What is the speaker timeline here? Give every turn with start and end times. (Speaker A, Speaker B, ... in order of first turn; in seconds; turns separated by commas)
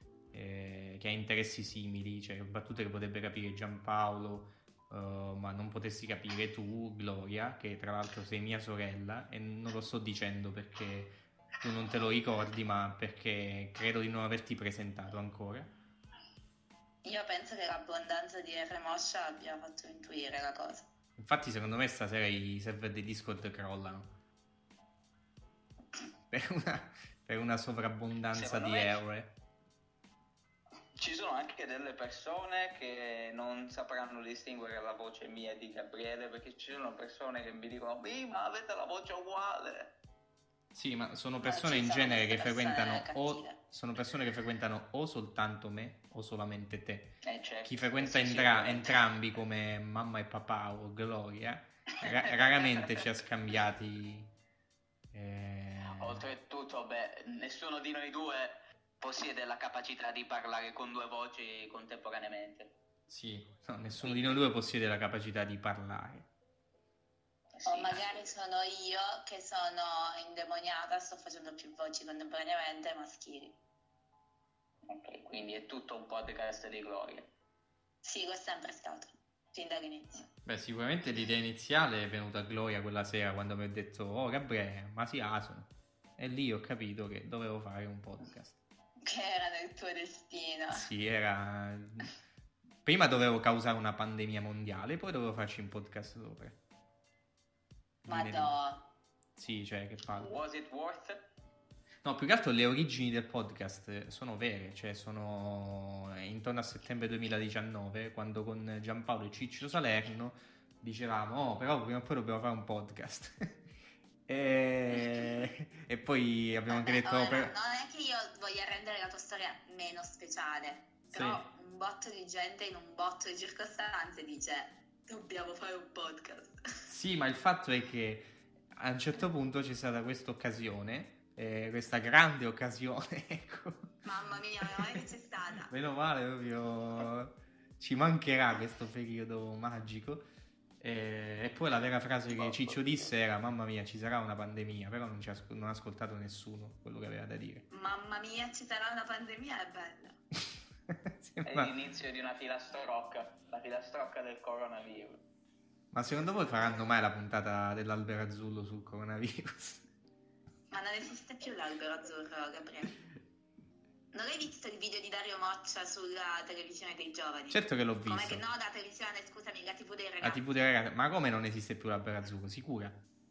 Speaker A: 0.3-15.7, Speaker B: 17.0-20.9, Speaker A: 21.2-24.1, Speaker A: 26.3-29.3, Speaker C: 28.3-29.0, Speaker C: 31.0-39.9, Speaker A: 40.7-54.3, Speaker B: 41.4-43.6, Speaker C: 47.2-49.1, Speaker C: 52.0-52.9, Speaker A: 55.1-56.2, Speaker C: 55.9-62.7, Speaker A: 63.1-66.3, Speaker C: 64.0-64.4, Speaker C: 67.5-68.3, Speaker B: 67.7-73.6, Speaker C: 74.9-77.3, Speaker B: 78.0-80.3, Speaker A: 80.5-88.6, Speaker B: 89.0-90.9, Speaker A: 90.7-92.1, Speaker A: 92.8-96.6, Speaker A: 98.0-98.5, Speaker B: 98.1-98.8, Speaker A: 99.4-100.3, Speaker C: 100.2-101.3, Speaker A: 102.0-113.5, Speaker A: 114.3-117.5, Speaker B: 116.7-126.6, Speaker A: 121.1-121.5, Speaker A: 126.9-133.9, Speaker B: 134.1-135.7, Speaker A: 134.6-135.0, Speaker A: 135.7-140.2, Speaker A: 140.8-147.7, Speaker C: 142.3-143.1, Speaker B: 147.7-150.2, Speaker A: 150.9-151.7, Speaker C: 151.4-155.2, Speaker A: 155.9-159.9, Speaker B: 160.7-162.9, Speaker B: 164.1-170.5, Speaker A: 167.5-168.4, Speaker A: 170.2-173.0